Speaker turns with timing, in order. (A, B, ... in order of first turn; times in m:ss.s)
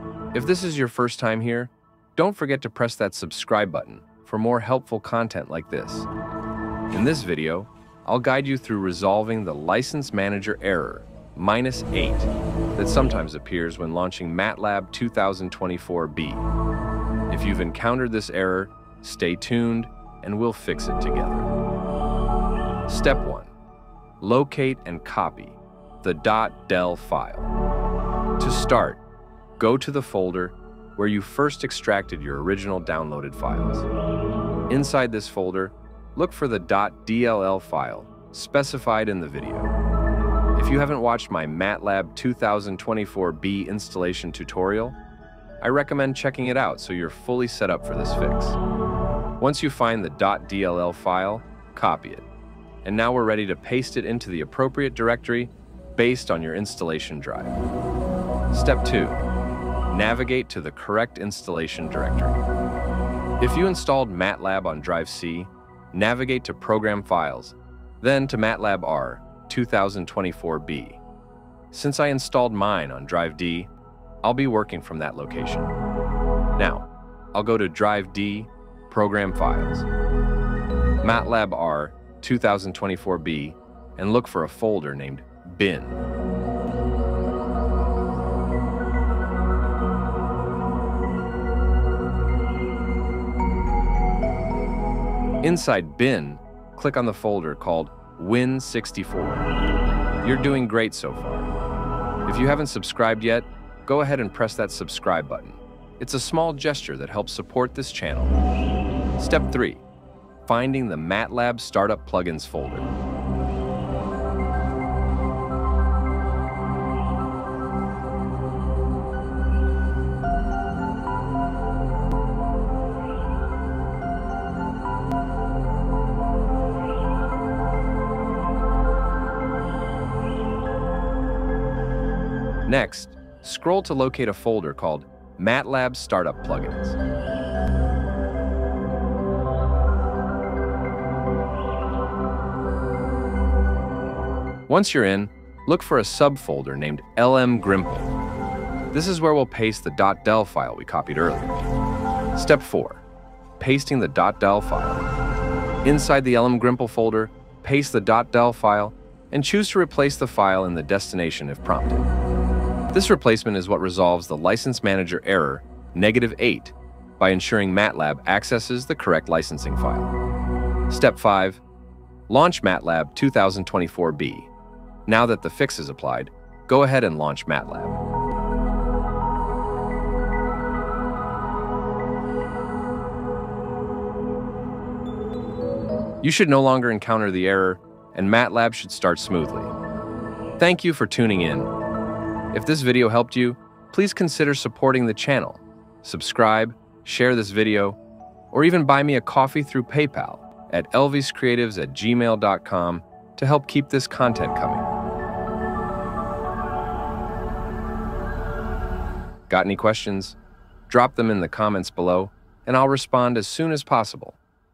0:00.3-0:06.1 A
0:06.9-0:16.4 A
0:17.3-0:21.5 A
0:22.9-0:23.5 A
0:24.2-0:27.5 A
0:28.4-0:29.0 A
0:29.6-0:33.9 A
0:34.7-0:39.7 A
0:40.5-0:45.0 A
0:45.6-0:48.6 A
0:49.4-0:52.3 A
0:52.8-0:57.6 A
0:58.5-0:59.2 A
0:59.9-1:02.4 A
1:03.4-1:11.0 A
1:11.7-1:13.7 A
1:14.2-1:15.7 A
1:16.6-1:19.9 A
1:21.0-1:26.0 A
1:35.4-1:39.5 A
1:40.2-1:41.5 A
1:42.2-1:48.4 A
1:49.2-1:49.8 A
1:50.4-1:52.9 A
2:12.6-2:17.0 A
2:24.7-2:28.1 A
2:28.9-2:31.5 A
2:32.3-2:33.0 A
2:33.6-2:35.1 A
2:35.8-2:42.1 A
2:42.9-2:50.1 A
2:50.9-2:51.6 A
2:52.3-2:54.5 A
2:55.1-2:58.0 A
3:06.2-3:09.7 A
3:10.6-3:11.7 A
3:12.5-3:18.0 A
3:18.5-3:24.9 A
3:29.5-3:30.4 A
3:30.9-3:34.4 A